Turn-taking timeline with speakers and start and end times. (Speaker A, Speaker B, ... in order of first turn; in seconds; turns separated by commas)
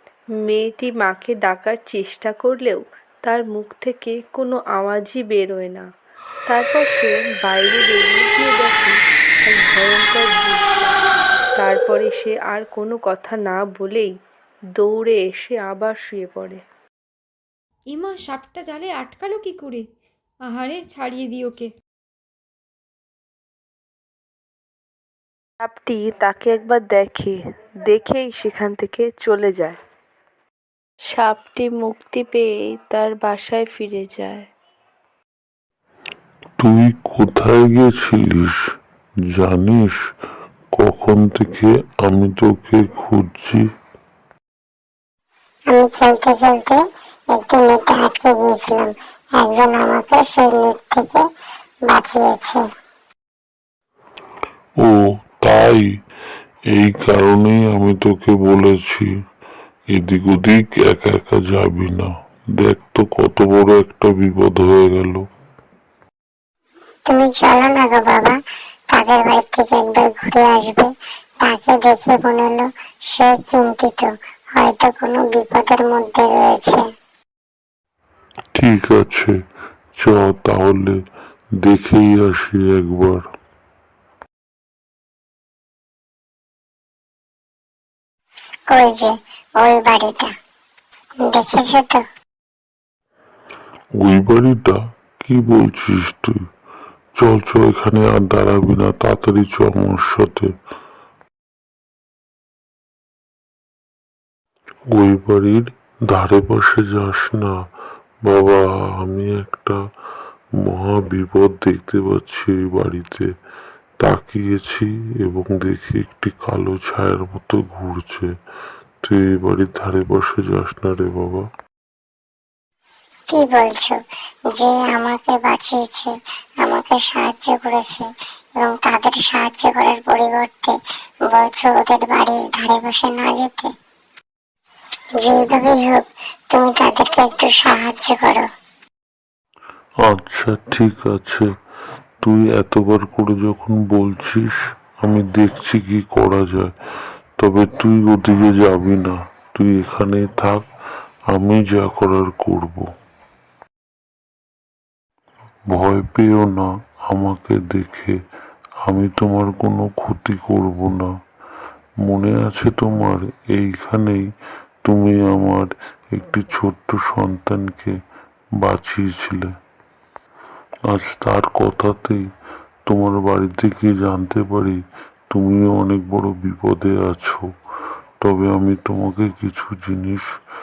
Speaker A: 0.5-5.8, Speaker A: 6.5-10.9, Speaker A: 11.6-14.1, Speaker A: 14.8-16.6, Speaker B: 17.9-19.8, Speaker B: 20.4-21.7, Speaker A: 25.6-27.4, Speaker A: 27.9-29.8, Speaker A: 31.1-34.4, Speaker C: 36.6-38.6, Speaker C: 39.3-40.0, Speaker C: 40.7-43.6, Speaker D: 45.7-46.8, Speaker D: 47.3-51.2, Speaker D: 51.9-52.6, Speaker C: 54.8-55.8, Speaker C: 56.7-59.1, Speaker C: 59.9-65.2, Speaker D: 67.1-68.3, Speaker D: 68.9-70.9, Speaker D: 71.4-76.8, Speaker C: 78.5-79.3, Speaker C: 80.0-80.9, Speaker C: 81.6-83.2, Speaker D: 88.7-90.3, Speaker D: 91.2-92.0, Speaker C: 94.0-96.3, Speaker C: 97.2-100.5, Speaker C: 104.9-107.5, Speaker C: 108.2-109.8, Speaker C: 110.6-113.2, Speaker C: 114.0-118.3, Speaker C: 119.0-121.4, Speaker D: 123.3-124.0, Speaker D: 124.5-126.1, Speaker D: 126.6-128.0, Speaker D: 128.6-130.7, Speaker D: 131.3-133.7, Speaker D: 135.2-138.4, Speaker C: 140.1-141.4, Speaker C: 142.2-144.5, Speaker C: 145.0-146.7, Speaker C: 147.4-150.6, Speaker C: 151.3-152.8, Speaker C: 155.7-158.1, Speaker C: 158.9-161.1, Speaker C: 162.0-164.2, Speaker C: 164.8-167.9, Speaker C: 168.6-169.5, Speaker C: 170.9-172.2, Speaker C: 172.9-174.8, Speaker C: 175.3-177.4, Speaker C: 178.2-180.2